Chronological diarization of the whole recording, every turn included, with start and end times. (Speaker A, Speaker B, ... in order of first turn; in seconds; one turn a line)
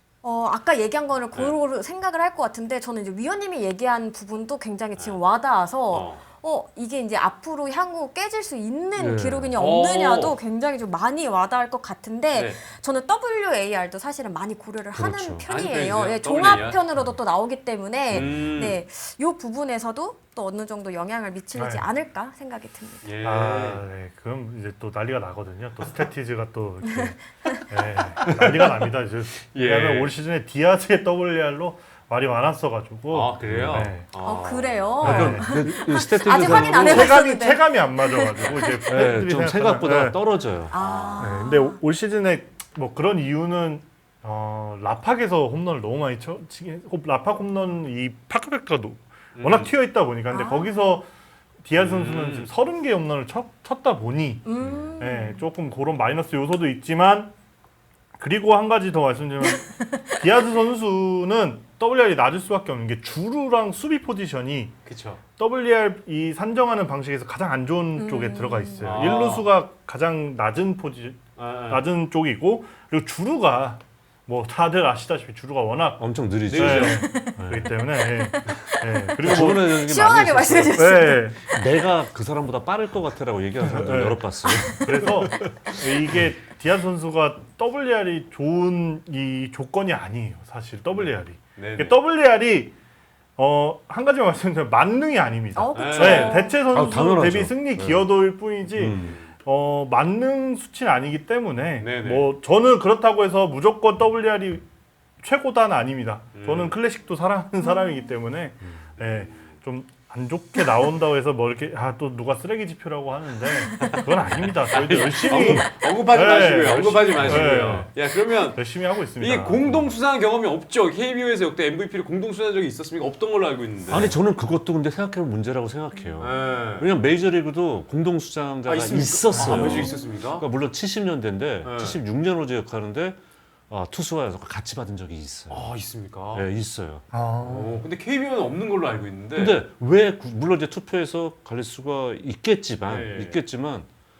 Speaker A: 0.2-23.1
Speaker B: 5.9-6.2
Speaker C: 9.0-9.6
Speaker B: 9.6-10.4
Speaker B: 12.3-12.6
Speaker C: 14.9-15.5
Speaker B: 15.5-16.8
Speaker B: 18.1-18.8
Speaker C: 18.1-18.4
Speaker D: 21.5-21.9
Speaker B: 23.0-23.8
Speaker D: 23.2-34.1
Speaker A: 26.8-27.9
Speaker B: 28.2-30.1
Speaker B: 33.1-34.9
Speaker C: 33.4-33.9
Speaker A: 34.2-39.1
Speaker C: 35.0-37.3
Speaker D: 35.0-40.2
Speaker C: 38.9-40.7
Speaker A: 40.7-41.8
Speaker B: 40.7-41.2
Speaker D: 41.2-51.1
Speaker B: 49.3-49.7
Speaker A: 50.3-50.7
Speaker D: 51.6-57.3
Speaker B: 51.8-52.5
Speaker A: 54.5-55.5
Speaker C: 54.6-54.9
Speaker D: 58.2-64.7
Speaker A: 59.4-60.1
Speaker B: 64.8-65.2
Speaker D: 65.4-79.8
Speaker A: 68.0-68.9
Speaker B: 68.8-69.5
Speaker B: 71.4-71.8
Speaker C: 76.0-77.8
Speaker B: 76.5-77.0
Speaker A: 76.8-81.6
Speaker C: 79.2-85.5
Speaker D: 80.8-81.4
Speaker D: 83.6-92.8
Speaker A: 84.4-85.0
Speaker B: 91.0-92.0
Speaker D: 93.4-104.6
Speaker A: 95.5-97.0
Speaker B: 95.8-96.5
Speaker C: 96.7-98.1
Speaker C: 98.7-99.2
Speaker B: 99.0-99.3
Speaker B: 101.8-102.3
Speaker D: 105.2-119.9
Speaker B: 106.3-106.8
Speaker A: 107.6-108.1
Speaker B: 109.0-109.5
Speaker A: 113.7-114.0
Speaker B: 113.8-124.2
Speaker C: 117.1-117.9
Speaker C: 123.9-133.2
Speaker B: 126.2-126.9
Speaker B: 128.6-130.4
Speaker A: 129.4-130.0
Speaker B: 131.6-132.0
Speaker C: 133.7-135.7
Speaker B: 135.5-136.5
Speaker C: 136.3-137.1
Speaker D: 137.1-137.8
Speaker B: 137.4-139.6
Speaker C: 139.3-143.9
Speaker B: 142.9-143.4